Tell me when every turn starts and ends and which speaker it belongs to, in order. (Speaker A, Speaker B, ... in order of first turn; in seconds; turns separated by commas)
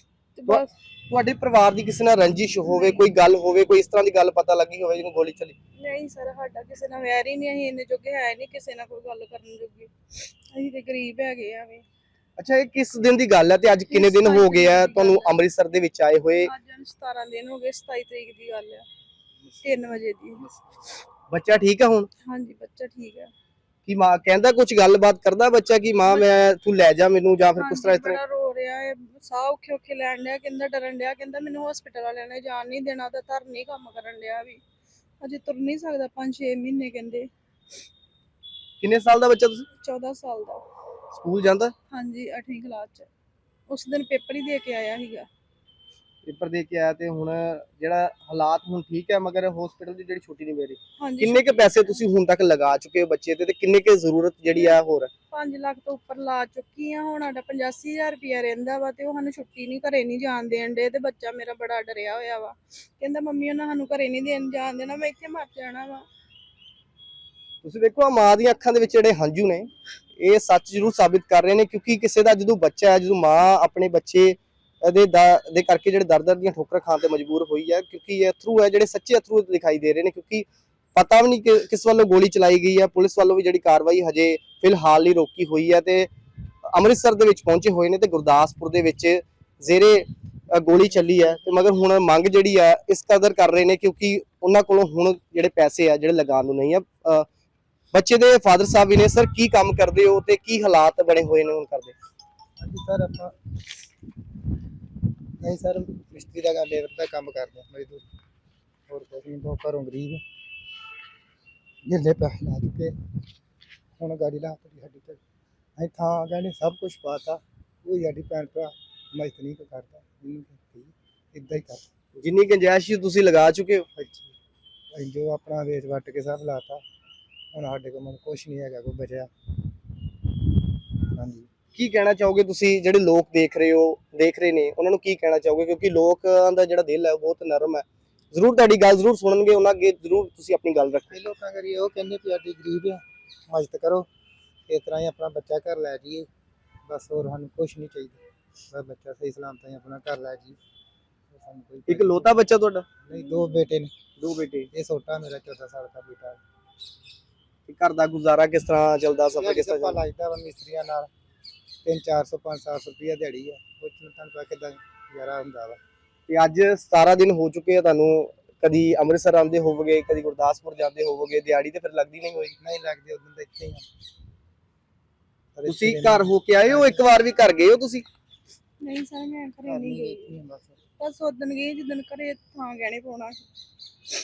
Speaker A: 0.3-0.7, Speaker B: 0.5-5.5, Speaker A: 2.6-3.0, Speaker A: 5.8-9.9, Speaker A: 10.5-11.8, Speaker B: 12.4-16.5, Speaker A: 13.9-15.3, Speaker A: 16.4-18.9, Speaker A: 19.6-20.4, Speaker B: 21.3-22.1, Speaker A: 22.2-23.3, Speaker B: 23.9-28.2, Speaker A: 27.6-34.6, Speaker A: 35.2-37.3, Speaker B: 38.8-39.7, Speaker A: 39.8-40.6, Speaker B: 41.1-41.7, Speaker A: 41.9-43.1, Speaker A: 43.7-45.3, Speaker B: 46.2-55.1, Speaker A: 51.0-52.0, Speaker A: 54.5-54.8, Speaker A: 55.3-66.0, Speaker B: 67.6-86.1, Speaker B: 86.7-97.2, Speaker B: 97.9-101.9, Speaker C: 102.6-103.3, Speaker C: 105.4-108.0, Speaker C: 108.9-110.2, Speaker C: 111.8-112.9, Speaker C: 114.0-115.2, Speaker C: 115.8-121.8, Speaker B: 122.2-123.8, Speaker C: 124.0-124.3, Speaker C: 124.9-126.8, Speaker C: 127.5-129.3, Speaker C: 131.2-131.5, Speaker B: 131.7-141.2, Speaker C: 141.1-144.1, Speaker C: 144.7-146.3, Speaker C: 146.9-148.2, Speaker C: 148.7-150.6, Speaker C: 151.3-152.3, Speaker B: 151.9-152.8, Speaker C: 153.0-153.9, Speaker A: 153.1-153.7, Speaker B: 154.2-154.7, Speaker C: 154.7-156.4, Speaker B: 157.7-160.0, Speaker C: 159.4-161.1, Speaker C: 161.8-165.8, Speaker B: 166.3-172.5, Speaker C: 172.6-173.8, Speaker C: 175.5-177.1, Speaker B: 175.7-178.0, Speaker A: 178.8-180.4, Speaker C: 179.7-180.8, Speaker A: 181.0-183.4